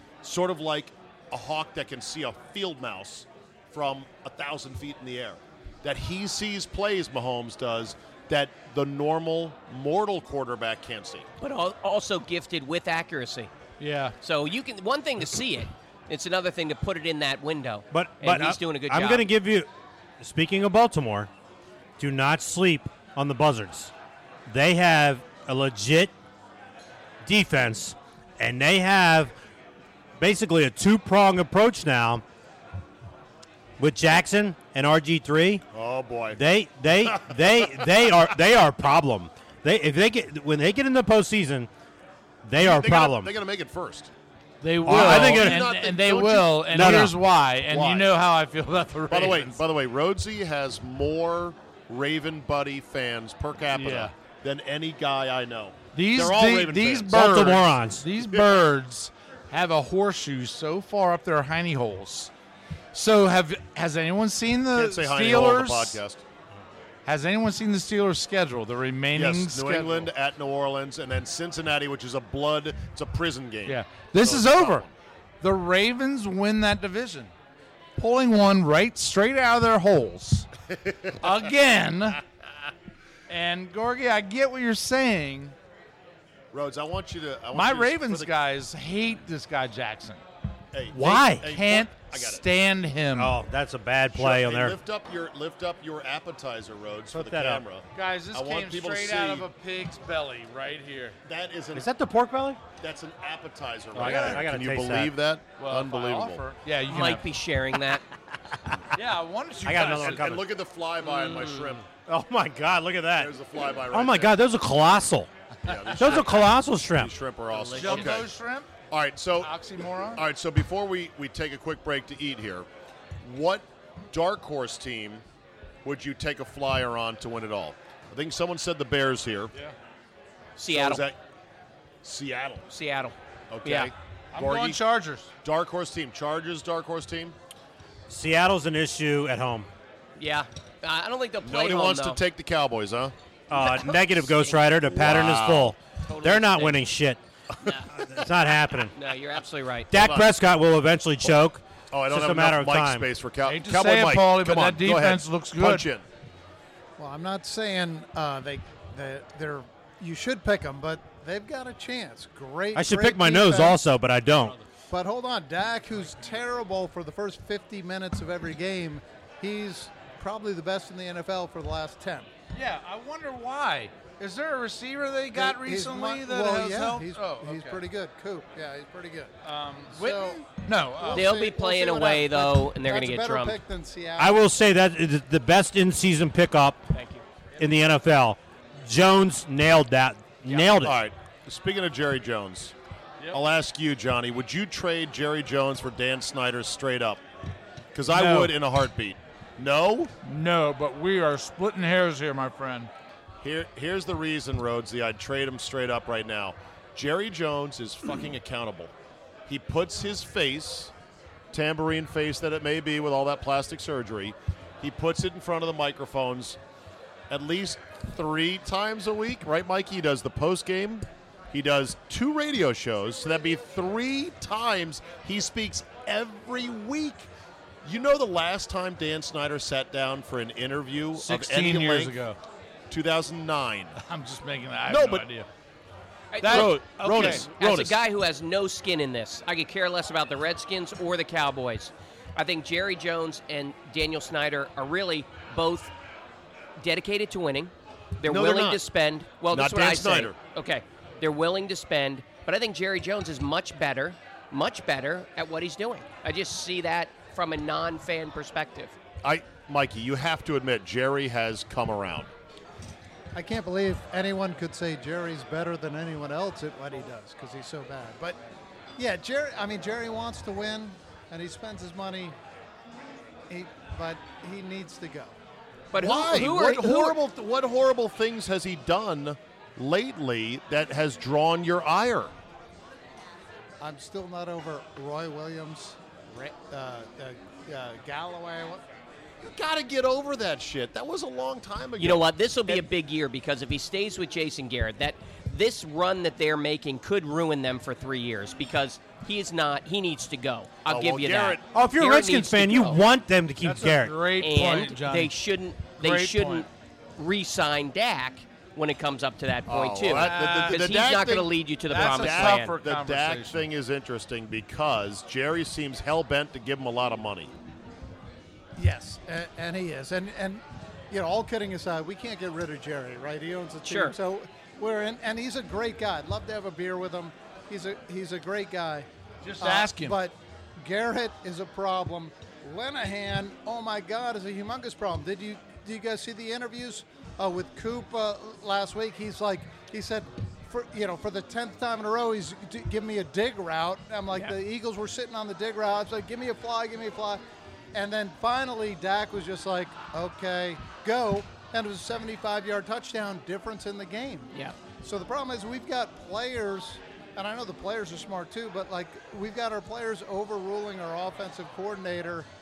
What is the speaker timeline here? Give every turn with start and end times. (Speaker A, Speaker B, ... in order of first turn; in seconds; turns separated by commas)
Speaker A: 0.2-11.3, Speaker B: 11.4-13.5, Speaker C: 13.8-14.2, Speaker B: 14.2-19.3, Speaker D: 17.9-19.7, Speaker D: 20.2-21.3, Speaker D: 22.0-23.9, Speaker D: 24.5-26.1, Speaker D: 27.2-29.3, Speaker D: 30.2-32.2, Speaker D: 33.8-35.6, Speaker A: 35.7-36.4, Speaker D: 36.3-41.7, Speaker A: 37.0-37.9, Speaker D: 42.4-43.3, Speaker A: 42.6-44.1, Speaker C: 44.6-49.6, Speaker A: 44.8-47.2, Speaker D: 44.9-45.7, Speaker D: 46.7-47.2, Speaker A: 47.7-48.1, Speaker A: 49.1-57.6, Speaker C: 53.7-54.1, Speaker C: 55.9-62.3, Speaker D: 57.1-58.1, Speaker C: 62.9-66.0, Speaker A: 64.8-66.2, Speaker C: 67.1-70.1, Speaker A: 69.2-74.9, Speaker C: 73.7-74.8, Speaker C: 75.4-77.3, Speaker C: 78.0-80.5, Speaker A: 80.7-81.2, Speaker C: 81.2-82.2, Speaker C: 83.3-85.5, Speaker A: 86.5-88.3, Speaker C: 87.5-90.2, Speaker A: 90.7-92.4, Speaker C: 90.9-93.3, Speaker D: 91.0-91.3, Speaker D: 93.2-94.8, Speaker A: 94.1-99.5, Speaker D: 97.1-97.6, Speaker C: 98.0-101.2, Speaker A: 101.2-101.9, Speaker D: 101.7-102.6, Speaker A: 102.8-106.4, Speaker D: 103.9-105.2, Speaker C: 104.0-104.5, Speaker C: 105.6-107.3, Speaker B: 106.9-108.0, Speaker D: 108.5-108.8, Speaker C: 108.9-110.4, Speaker D: 109.6-110.5, Speaker A: 109.8-111.9, Speaker D: 111.9-113.3, Speaker A: 113.2-114.4, Speaker D: 113.9-115.3, Speaker A: 115.6-118.3, Speaker D: 115.9-117.1, Speaker B: 117.6-118.1, Speaker C: 117.7-118.7, Speaker A: 118.9-119.5, Speaker C: 119.4-120.2, Speaker A: 120.2-122.7, Speaker A: 123.2-125.2, Speaker A: 125.8-129.5, Speaker B: 130.6-131.0, Speaker A: 130.7-131.2, Speaker A: 132.0-132.7, Speaker B: 132.7-133.9, Speaker A: 133.5-134.8, Speaker C: 134.3-135.3, Speaker A: 135.4-137.4, Speaker D: 138.1-139.7, Speaker B: 140.2-142.2, Speaker A: 141.4-144.1, Speaker D: 143.5-147.2, Speaker B: 144.3-144.6, Speaker A: 144.8-145.8, Speaker B: 146.1-146.8, Speaker B: 147.6-147.9, Speaker D: 147.9-148.9, Speaker B: 148.9-149.9, Speaker D: 149.9-153.1, Speaker A: 149.9-150.3, Speaker A: 151.9-156.1, Speaker C: 153.4-155.9, Speaker E: 157.0-163.8, Speaker D: 162.8-164.6, Speaker E: 164.9-172.3, Speaker C: 172.5-177.8, Speaker E: 175.3-179.3, Speaker C: 179.4-181.3, Speaker E: 179.9-180.5, Speaker E: 181.0-184.4, Speaker B: 181.1-183.6, Speaker D: 184.2-186.9, Speaker B: 186.9-187.2, Speaker D: 187.6-191.0, Speaker B: 190.5-190.7, Speaker A: 190.8-192.8, Speaker A: 193.3-197.2, Speaker A: 197.9-200.1, Speaker C: 198.1-198.6, Speaker C: 200.2-202.9, Speaker A: 203.4-208.9, Speaker A: 209.5-210.9, Speaker A: 211.5-216.6, Speaker A: 217.3-227.3, Speaker A: 227.8-232.2, Speaker C: 231.2-232.4, Speaker A: 232.9-234.0, Speaker C: 234.0-235.5, Speaker A: 234.9-235.3, Speaker B: 236.3-245.9, Speaker C: 236.4-237.5, Speaker A: 236.4-238.0, Speaker B: 246.8-259.0, Speaker A: 248.3-248.8, Speaker A: 249.5-250.4, Speaker A: 259.2-262.3, Speaker E: 263.4-268.4, Speaker E: 269.0-272.4, Speaker E: 273.5-275.4, Speaker B: 275.9-277.2, Speaker A: 275.9-282.3, Speaker E: 283.8-288.8, Speaker A: 289.4-292.8, Speaker B: 292.0-303.0, Speaker A: 300.9-302.9, Speaker D: 301.7-304.2, Speaker C: 303.6-305.4, Speaker B: 304.4-312.8, Speaker C: 305.9-306.7, Speaker A: 309.7-317.5, Speaker C: 310.1-310.8, Speaker C: 311.9-313.7, Speaker E: 318.8-329.1, Speaker B: 323.8-324.2, Speaker C: 329.4-330.2, Speaker E: 329.6-347.4, Speaker E: 347.9-362.5